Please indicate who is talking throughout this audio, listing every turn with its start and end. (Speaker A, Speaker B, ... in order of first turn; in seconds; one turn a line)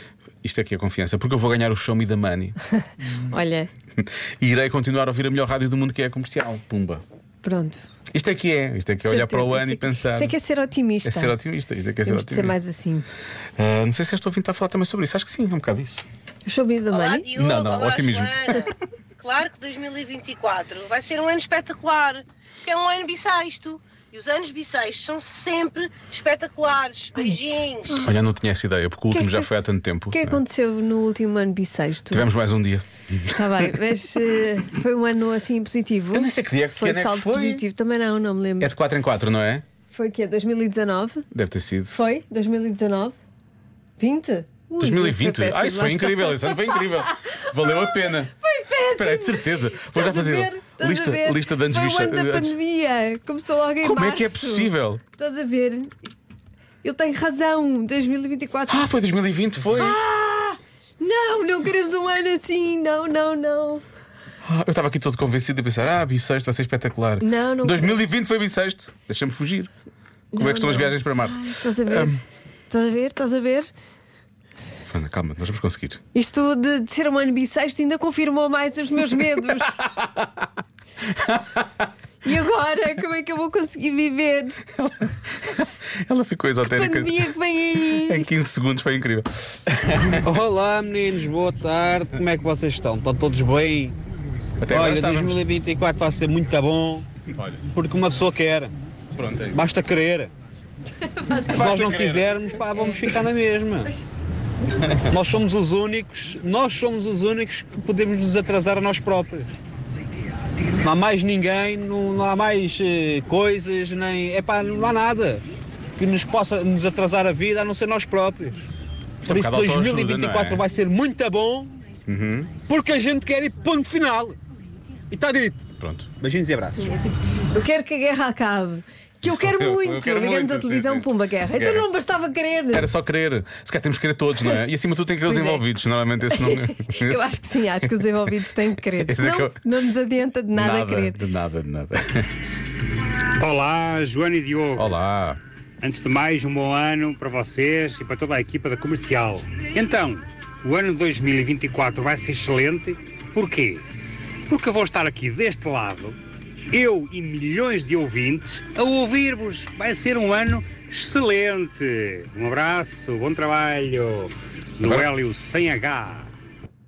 Speaker A: 0.4-2.6
Speaker B: 3.1-3.7
Speaker A: 4.0-7.0
Speaker B: 7.4-7.8
Speaker A: 8.1-10.4
Speaker B: 9.0-11.4
Speaker A: 11.0-12.6
Speaker B: 12.0-13.1
Speaker A: 13.6-16.1
Speaker B: 16.4-17.3
Speaker C: 16.9-18.6
Speaker A: 17.3-18.7
Speaker C: 19.2-27.9
Speaker B: 27.1-28.1
Speaker A: 28.0-30.4
Speaker B: 29.1-29.5
Speaker B: 30.1-32.3
Speaker A: 32.1-33.4
Speaker B: 33.3-38.7
Speaker A: 36.1-37.6
Speaker A: 38.6-39.6
Speaker B: 39.9-41.3
Speaker A: 41.3-42.0
Speaker B: 41.9-43.2
Speaker B: 44.0-56.0
Speaker A: 44.8-48.3
Speaker A: 48.9-52.5
Speaker A: 53.8-55.0
Speaker B: 56.8-58.9
Speaker A: 58.7-60.0
Speaker B: 59.7-63.8
Speaker A: 64.4-69.7
Speaker B: 67.2-68.0
Speaker B: 70.3-73.7
Speaker A: 70.4-72.2
Speaker A: 74.9-76.0
Speaker B: 76.1-79.8
Speaker A: 79.2-80.4
Speaker A: 81.2-81.6
Speaker B: 82.2-84.6
Speaker A: 84.7-90.4
Speaker B: 86.6-88.3
Speaker D: 90.2-94.0
Speaker A: 94.6-95.4
Speaker D: 94.7-97.1
Speaker A: 97.3-97.6
Speaker D: 97.7-98.7
Speaker A: 99.2-99.6
Speaker D: 99.5-100.3
Speaker B: 101.1-101.5
Speaker A: 101.4-102.4
Speaker D: 101.5-103.9
Speaker A: 104.7-105.0
Speaker D: 105.1-109.6
Speaker D: 110.8-115.4
Speaker D: 116.0-118.7
Speaker A: 119.2-120.6
Speaker D: 119.3-121.7
Speaker A: 122.1-122.5
Speaker D: 122.6-124.4
Speaker D: 125.1-125.6
Speaker A: 125.8-126.1
Speaker D: 126.2-126.9
Speaker B: 126.8-132.9
Speaker A: 129.2-131.9
Speaker A: 132.7-138.2
Speaker B: 135.3-135.7
Speaker B: 136.3-141.2
Speaker A: 138.9-139.6
Speaker A: 140.5-142.4
Speaker E: 143.4-144.9
Speaker A: 144.8-145.4
Speaker E: 145.8-153.8
Speaker E: 154.5-156.2
Speaker E: 156.7-166.3
Speaker A: 164.8-165.1